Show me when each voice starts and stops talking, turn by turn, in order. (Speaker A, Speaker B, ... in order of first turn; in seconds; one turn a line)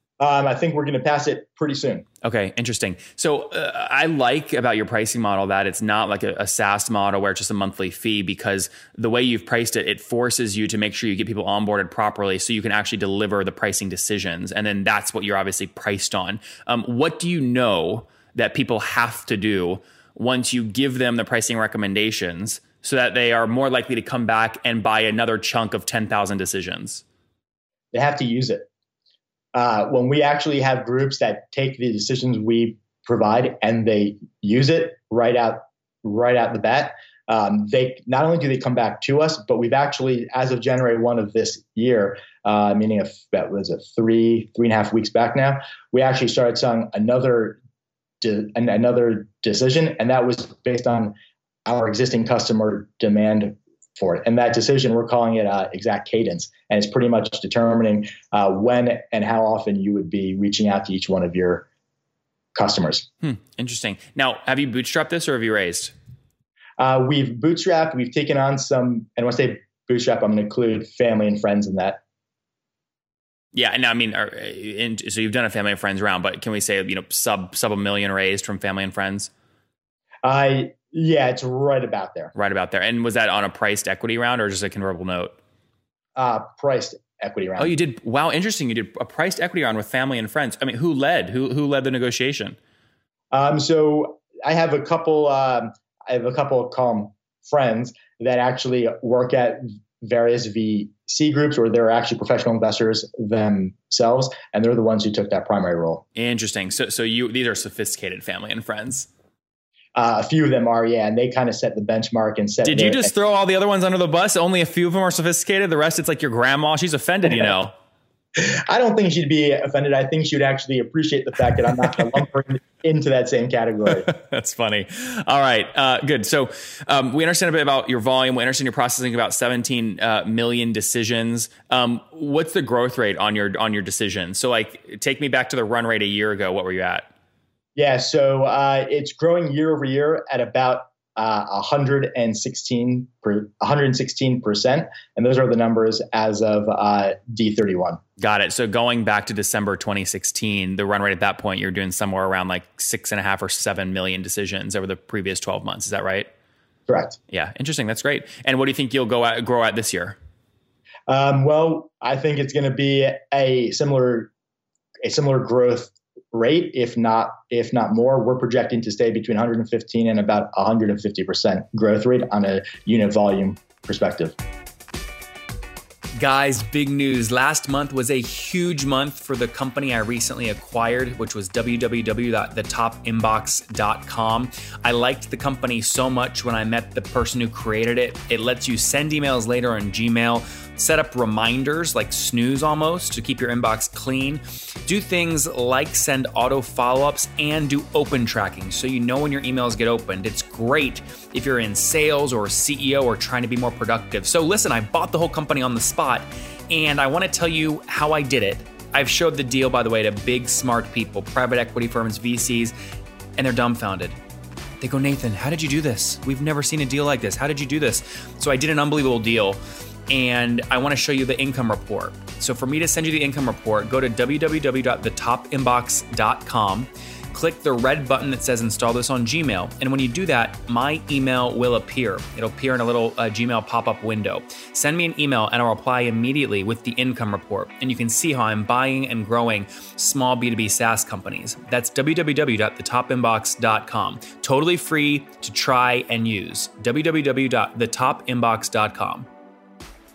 Speaker A: 0.2-2.0
Speaker B: 2.2-27.0
Speaker A: 27.9-28.7
Speaker A: 29.6-47.6
Speaker A: 48.2-51.1
Speaker A: 51.7-61.7
Speaker A: 62.5-63.1
Speaker B: 63.2-65.9
Speaker A: 66.8-72.0
Speaker B: 73.5-79.3
Speaker A: 80.2-82.3
Speaker B: 82.3-85.4
Speaker A: 86.2-87.8
Speaker B: 87.6-92.6
Speaker A: 93.3-106.0
Speaker B: 106.2-109.1
Speaker A: 109.9-113.1
Speaker B: 112.7-117.7
Speaker A: 118.4-124.1
Speaker B: 124.0-137.1
Speaker A: 137.8-148.0
Speaker B: 148.2-156.3
Speaker A: 156.9-157.2
Speaker B: 157.3-160.2
Speaker A: 161.1-164.3
Speaker A: 165.0-174.3
Speaker B: 176.2-212.7
Speaker B: 213.4-214.2
Speaker B: 214.8-219.6
Speaker B: 220.1-249.3